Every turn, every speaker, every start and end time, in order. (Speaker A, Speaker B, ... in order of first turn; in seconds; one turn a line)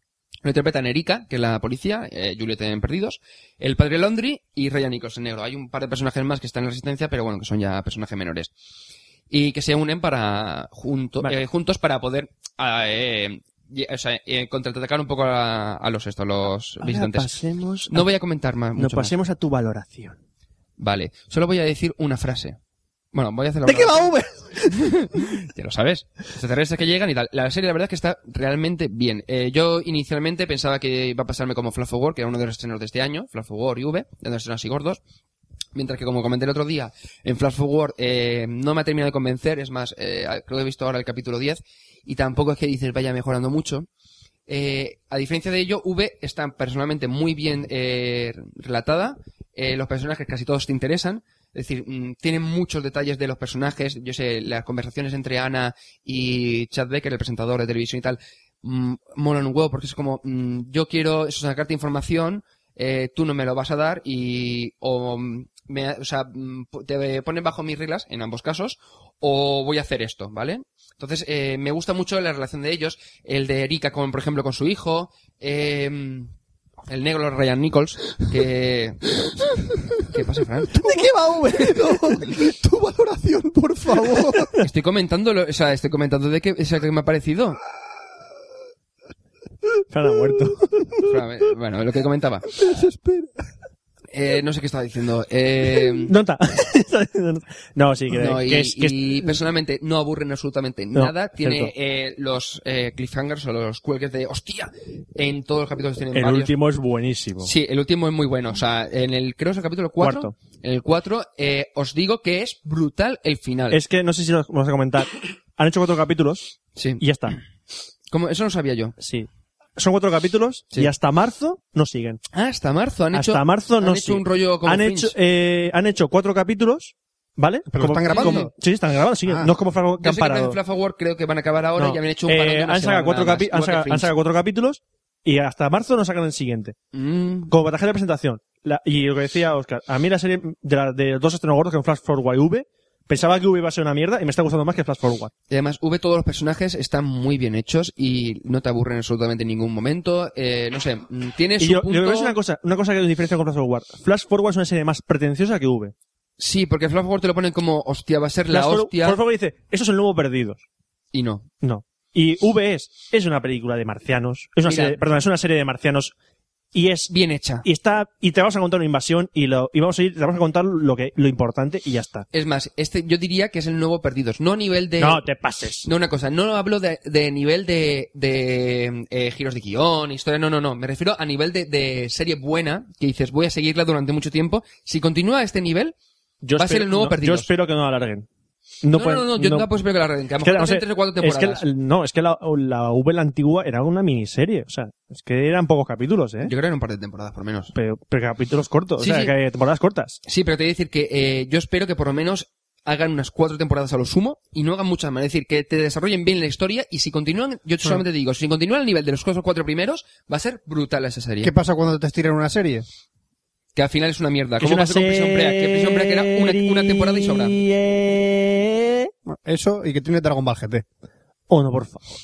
Speaker A: 0.4-8.5
Speaker A: 9.3-17.4
Speaker B: 16.8-18.1
Speaker A: 17.9-19.1
Speaker B: 18.8-20.2
Speaker A: 20.8-22.6
Speaker A: 23.1-35.0
Speaker B: 23.7-25.0
Speaker A: 35.8-43.9
Speaker A: 44.5-76.3
Speaker A: 76.9-79.1
Speaker A: 80.1-80.8
Speaker C: 80.7-84.5
Speaker B: 80.8-82.2
Speaker B: 84.0-84.6
Speaker A: 84.6-87.6
Speaker B: 89.9-91.0
Speaker A: 91.1-92.5
Speaker C: 92.6-93.3
Speaker A: 94.1-96.1
Speaker B: 96.1-99.3
Speaker A: 98.1-106.5
Speaker B: 101.0-101.7
Speaker B: 106.1-107.5
Speaker A: 107.4-113.8
Speaker B: 110.0-110.3
Speaker B: 113.7-117.4
Speaker A: 116.8-117.4
Speaker A: 118.1-119.0
Speaker B: 119.0-122.2
Speaker A: 122.3-125.1
Speaker B: 123.1-130.6
Speaker C: 127.7-128.5
Speaker A: 128.0-128.5
Speaker C: 129.2-129.5
Speaker A: 130.0-134.1
Speaker B: 131.8-136.8
Speaker A: 136.9-137.5
Speaker B: 137.5-145.3
Speaker A: 145.5-152.4
Speaker B: 151.6-155.9
Speaker A: 156.4-159.2
Speaker B: 158.5-160.6
Speaker A: 161.1-161.5
Speaker B: 161.6-166.1
Speaker A: 164.7-165.0
Speaker B: 166.7-167.1
Speaker A: 167.1-167.6
Speaker B: 167.6-172.3
Speaker A: 172.3-175.2
Speaker B: 175.0-175.9
Speaker A: 175.8-185.9
Speaker B: 186.4-188.3
Speaker A: 186.6-187.5
Speaker B: 188.8-189.7
Speaker A: 188.9-191.6
Speaker B: 190.4-196.5
Speaker A: 196.4-197.7
Speaker B: 197.7-200.2
Speaker A: 199.0-199.3
Speaker A: 200.3-211.5
Speaker C: 211.4-212.9
Speaker A: 213.8-217.6
Speaker B: 214.6-219.1
Speaker C: 219.3-220.8
Speaker B: 221.5-222.0